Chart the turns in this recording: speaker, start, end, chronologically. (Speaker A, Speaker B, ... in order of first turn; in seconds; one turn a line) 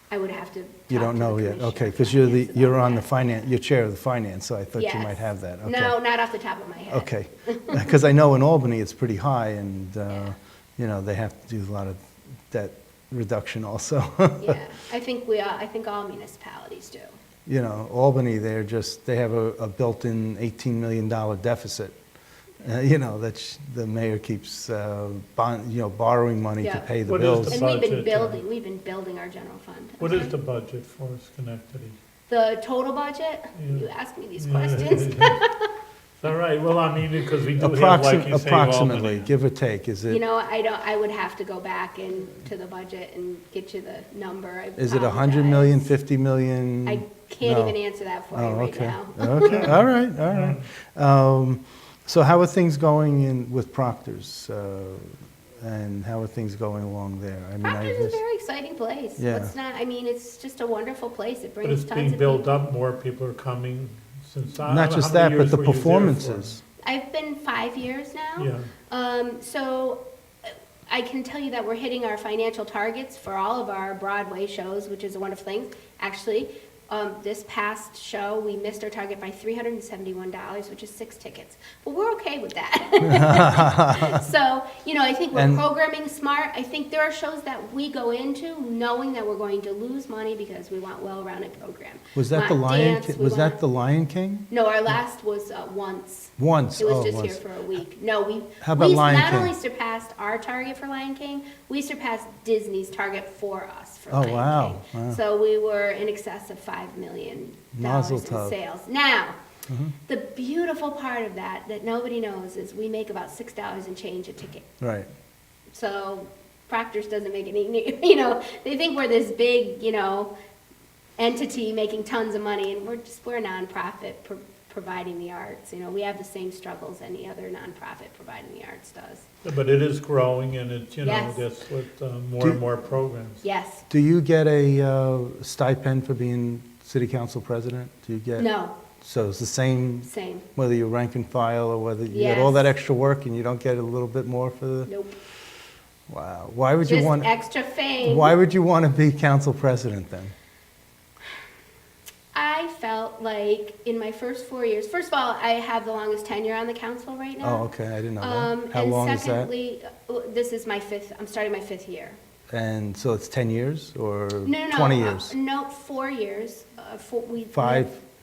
Speaker A: 0.1-3.2
Speaker B: 0.9-6.0
Speaker A: 4.8-8.0
Speaker B: 6.9-14.6
Speaker A: 14.4-17.1
Speaker B: 17.5-22.0
Speaker B: 22.6-27.6
Speaker A: 26.6-26.9
Speaker C: 27.1-28.4
Speaker A: 27.5-30.3
Speaker C: 30.0-32.0
Speaker A: 32.3-35.7
Speaker C: 33.5-35.4
Speaker C: 36.2-39.3
Speaker B: 37.6-40.2
Speaker A: 40.1-45.9
Speaker B: 44.8-47.8
Speaker A: 46.9-49.8
Speaker B: 48.3-58.2
Speaker C: 49.4-50.7
Speaker A: 57.6-62.5
Speaker B: 59.2-59.5
Speaker C: 61.6-66.5
Speaker B: 64.7-66.6
Speaker A: 66.8-70.0
Speaker C: 68.4-68.7
Speaker A: 70.9-93.6
Speaker B: 83.0-84.2
Speaker B: 85.3-85.7
Speaker B: 92.2-94.5
Speaker A: 94.5-109.4
Speaker B: 96.4-97.4
Speaker B: 98.6-99.5
Speaker B: 104.1-105.2
Speaker B: 107.8-108.6
Speaker B: 109.7-110.0
Speaker A: 110.1-114.7
Speaker B: 114.8-115.1
Speaker A: 115.7-120.3
Speaker A: 121.2-129.3
Speaker C: 129.4-133.4
Speaker A: 131.0-131.4
Speaker A: 133.4-133.8
Speaker B: 133.9-138.5
Speaker A: 138.4-138.8
Speaker B: 139.0-144.9
Speaker A: 140.1-140.5
Speaker A: 142.1-142.7
Speaker A: 144.9-145.2
Speaker B: 146.1-147.3
Speaker A: 146.8-148.3
Speaker B: 148.0-150.3
Speaker A: 152.3-157.7
Speaker B: 157.4-159.5
Speaker A: 158.2-162.2
Speaker B: 162.5-165.3
Speaker A: 164.4-167.9
Speaker B: 167.5-168.0